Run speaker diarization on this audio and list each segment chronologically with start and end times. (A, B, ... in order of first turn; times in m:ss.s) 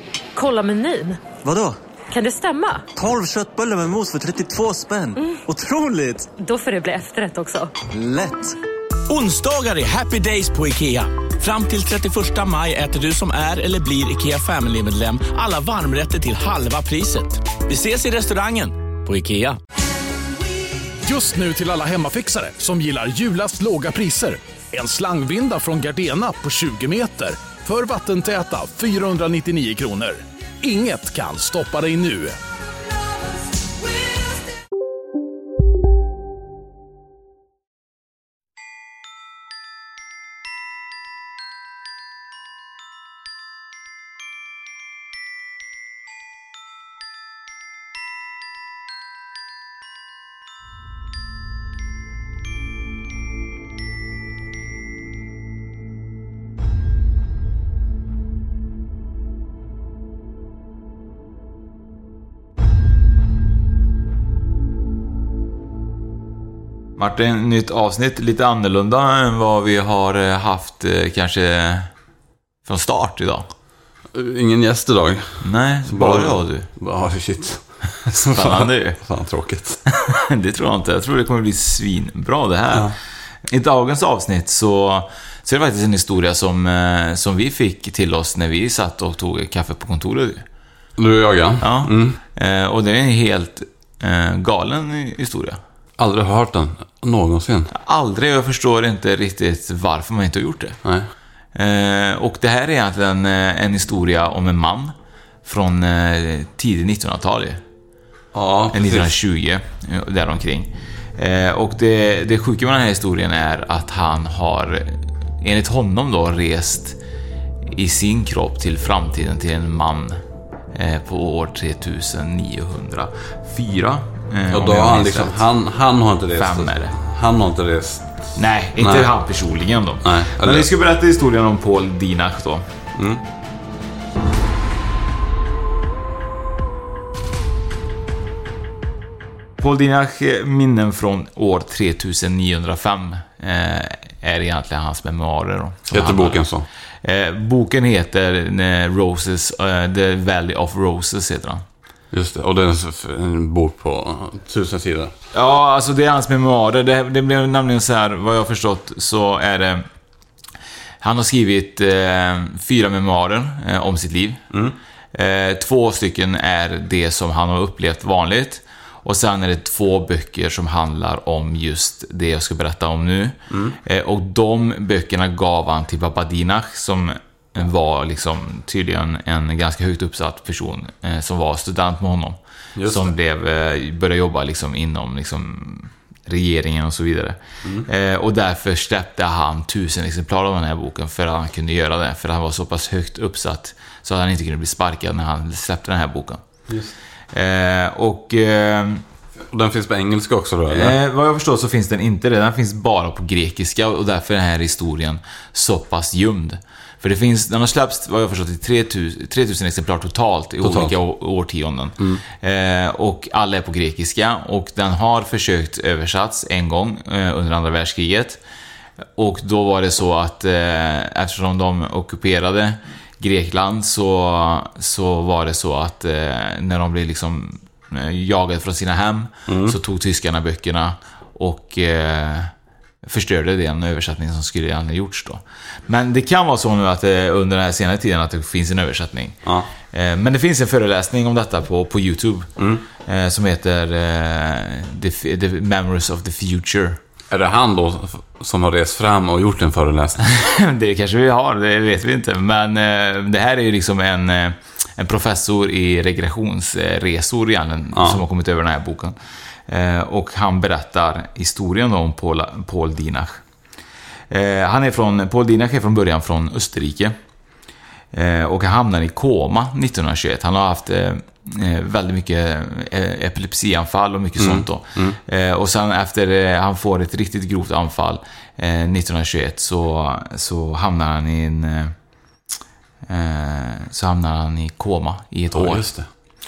0:00.3-0:01.2 A
0:01.4-0:01.8 B
0:02.1-0:02.9 A
0:02.9-0:06.3 B
0:06.3-0:07.7 A
0:07.9-0:08.6 B
0:09.1-0:19.6 C
0:21.0-0:32.4 D
1:07.0-1:11.9 E
1:12.6-1:13.5 E
1:14.1-1:19.8 F
1:15.4-1:16.7 E
1:18.3-1:19.0 E
1:19.9-1:22.9 E
1:23.5-1:30.4 E
1:31.0-1:32.2 F
1:31.6-1:35.6 E
1:36.0-1:37.7 F
1:37.7-1:40.8 E
1:40.8-1:41.1 F
1:41.5-1:44.9 E
1:45.4-1:47.6 E
1:48.3-1:49.1 F
1:48.7-1:57.0 E
1:57.7-2:00.2 E
2:00.7-2:05.4 E
2:04.5-2:08.1 F
2:06.4-2:06.9 E
2:08.3-2:12.6 E
2:08.8-2:09.1 F
2:10.0-2:10.7 F
2:13.0-2:13.2 F
2:19.6-2:26.4 E
2:25.9-2:26.7 F
2:27.0-2:31.6 E
2:32.1-2:35.1 F
2:35.3-2:39.8 E
2:41.0-2:44.4 E
2:45.1-3:16.4 E
2:53.5-2:53.8 F
3:02.8-3:03.1 F
3:16.7-3:16.9 F
3:17.3-3:19.0 E
3:19.5-3:21.0 F
3:20.7-3:38.4 E
3:30.6-3:31.0 F
3:39.2-3:52.5 E
3:49.5-3:49.8 F
3:53.0-3:59.4 E
3:59.4-3:59.7 F
3:59.9-4:02.5 E
4:02.6-4:02.8 F
4:03.0-4:07.0 E
4:07.3-4:10.2 F
4:10.2-4:19.1 E
4:17.9-4:18.2 F
4:19.7-4:23.4 E
4:24.3-4:27.2 E
4:28.1-4:41.9 E
4:34.4-4:35.2 F
4:43.1-4:45.8 E
4:45.5-4:46.1 F